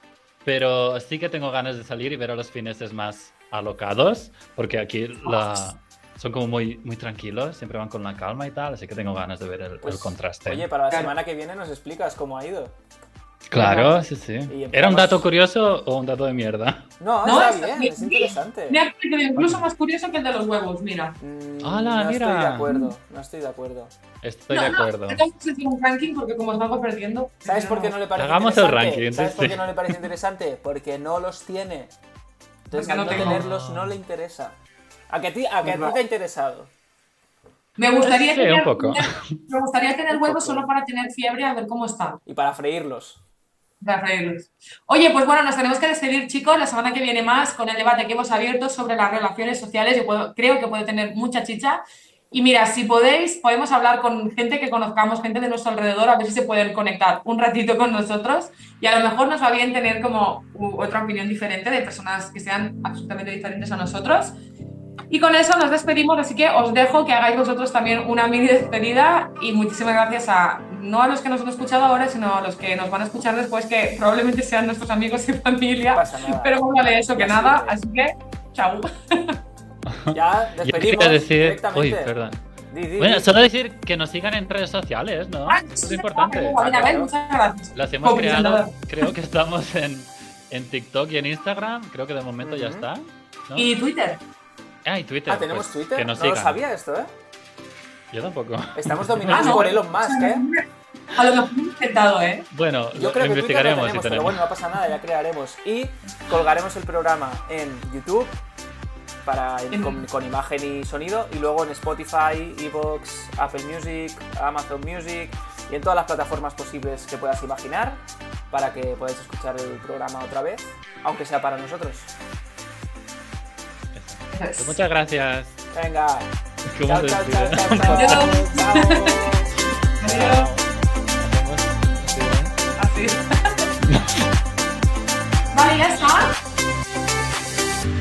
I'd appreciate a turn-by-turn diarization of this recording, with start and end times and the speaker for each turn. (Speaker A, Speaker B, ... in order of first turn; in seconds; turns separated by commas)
Speaker A: 0.4-10.7, Speaker B: 5.2-5.6, Speaker C: 9.8-12.7, Speaker A: 13.5-16.9, Speaker B: 13.5-13.9, Speaker C: 14.5-15.3, Speaker C: 17.0-18.8, Speaker B: 17.2-21.2, Speaker A: 19.4-19.6, Speaker C: 21.2-23.9, Speaker A: 21.6-22.7, Speaker A: 24.2-25.2, Speaker B: 24.5-27.9, Speaker C: 27.4-31.9, Speaker A: 28.1-29.8, Speaker C: 32.7-34.5, Speaker B: 32.7-33.4, Speaker A: 33.1-34.0, Speaker C: 35.1-36.7, Speaker B: 35.6-36.0, Speaker B: 37.8-42.2, Speaker A: 38.0-39.3, Speaker C: 40.1-40.7, Speaker C: 42.2-43.2, Speaker B: 43.8-64.3, Speaker B: 65.1-79.3, Speaker C: 75.9-77.8, Speaker A: 79.9-82.4, Speaker C: 80.1-82.1, Speaker C: 82.7-83.3, Speaker A: 83.0-86.8, Speaker B: 85.5-89.1, Speaker C: 86.5-87.1, Speaker A: 87.7-93.7, Speaker C: 92.4-92.9, Speaker B: 93.5-94.2, Speaker A: 94.8-96.6, Speaker C: 95.3-97.1, Speaker A: 98.1-99.7, Speaker C: 98.7-100.5, Speaker B: 99.3-102.5, Speaker A: 102.5-104.4, Speaker C: 102.9-108.4, Speaker C: 109.2-122.1, Speaker B: 109.7-110.0, Speaker A: 123.9-125.6, Speaker B: 124.3-124.8, Speaker C: 125.7-126.3, Speaker A: 126.7-128.3, Speaker C: 126.8-129.5, Speaker B: 127.8-129.3, Speaker B: 130.0-130.5, Speaker A: 130.0-132.6, Speaker B: 132.8-133.7, Speaker A: 133.8-134.2, Speaker B: 135.5-136.4